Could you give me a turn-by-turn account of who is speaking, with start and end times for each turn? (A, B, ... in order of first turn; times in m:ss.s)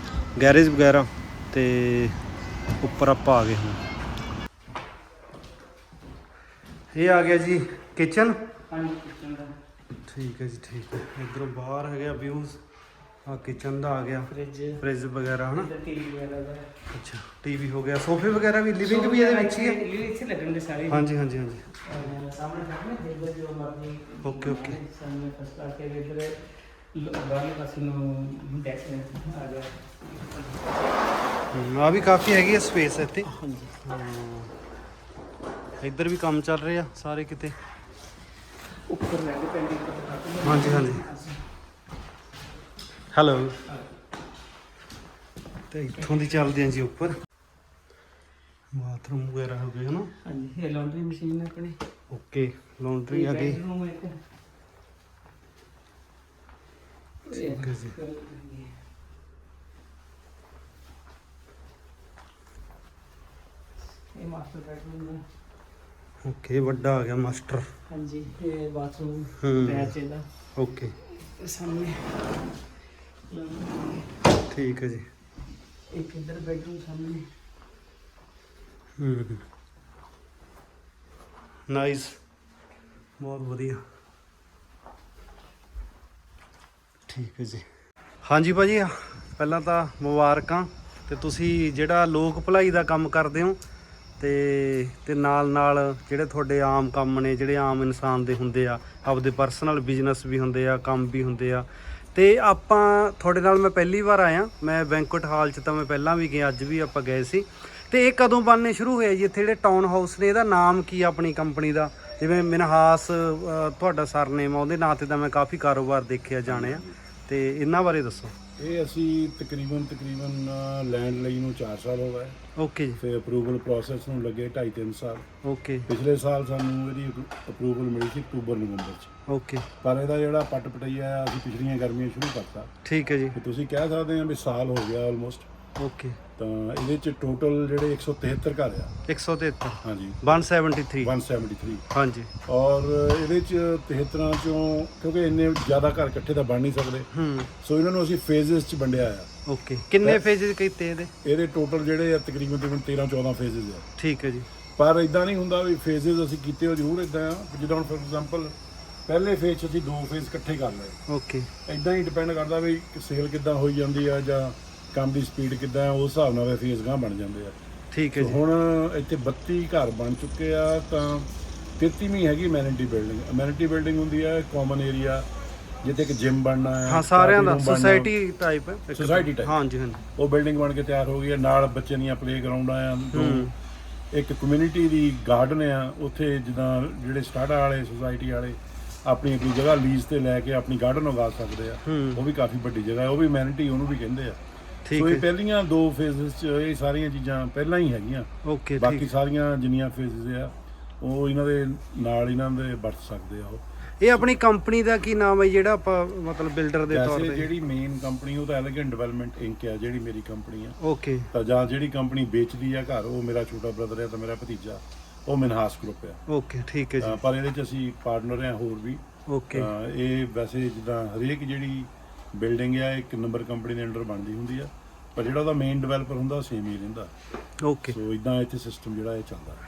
0:00.4-0:02.1 A
0:02.8-0:03.8 A
0:06.9-0:08.4 A
0:08.7-0:09.5 B
0:10.1-0:12.6 A
0:13.2-0:15.7 A
0:14.3-0:14.8 B
0:15.5-0:16.7 B
0:16.9-0:19.8 A
0:18.8-0:21.1 B
0:20.9-0:21.8 A
0:21.8-0:30.7 B
0:24.2-0:24.8 A
0:31.5-0:33.3 A
0:33.2-0:33.7 B
0:33.8-0:34.5 A
0:35.8-0:37.6 A
0:38.8-0:41.4 B
0:40.4-0:41.1 A
0:43.1-0:43.6 A
0:45.7-0:47.2 A
0:48.7-0:50.1 A
0:50.2-0:51.8 B
0:52.1-0:53.6 A
0:53.1-0:54.2 B
0:57.2-0:58.7 B
0:57.3-0:58.0 A
1:04.1-1:05.2 B
1:06.2-1:07.7 A
1:07.9-1:10.3 B
1:09.4-1:09.9 A
1:10.6-1:10.9 A
1:11.2-1:12.4 B
1:13.3-1:14.2 B
1:14.5-1:15.0 A
1:15.9-1:17.3 B
1:19.0-1:19.4 A
1:21.7-1:22.2 A
1:23.2-1:23.8 A
1:27.1-1:27.6 A
1:28.2-1:33.6 A
1:34.2-1:58.3 A
1:56.4-1:56.9 C
1:58.6-2:02.4 C
2:02.6-2:03.0 A
2:03.0-2:05.2 C
2:05.4-2:05.9 A
2:05.9-2:09.1 C
2:09.3-2:09.7 A
2:09.8-2:12.7 C
2:12.8-2:13.4 A
2:13.3-2:15.5 C
2:15.8-2:16.2 A
2:16.4-2:18.9 C
2:19.1-2:21.1 A
2:19.8-2:20.2 C
2:21.0-2:21.8 C
2:21.9-2:22.3 A
2:22.5-2:27.1 C
2:27.1-2:27.5 A
2:27.6-2:29.3 C
2:29.5-2:31.1 A
2:31.2-2:33.8 C
2:34.0-2:34.5 A
2:34.8-2:38.5 C
2:39.1-2:41.0 C
2:41.1-2:41.5 A
2:41.6-2:47.6 C
2:47.9-2:48.4 A
2:48.2-2:55.3 C
2:55.8-2:58.1 C
2:56.9-3:00.0 A
2:58.9-2:59.5 C
3:00.2-3:03.5 C
3:03.1-3:03.5 A
3:04.1-3:14.4 C
3:11.8-3:12.2 A
3:14.9-3:15.2 A
3:14.9-3:24.3 C
3:18.4-3:19.1 A
3:24.0-3:27.5 A
3:26.9-3:30.8 C
3:30.8-3:31.3 A
3:31.3-3:36.2 C
3:36.3-3:37.2 A
3:37.0-3:39.0 C
3:39.3-3:39.7 A
3:39.5-3:47.1 C
3:47.6-3:47.9 A
3:47.9-3:49.6 C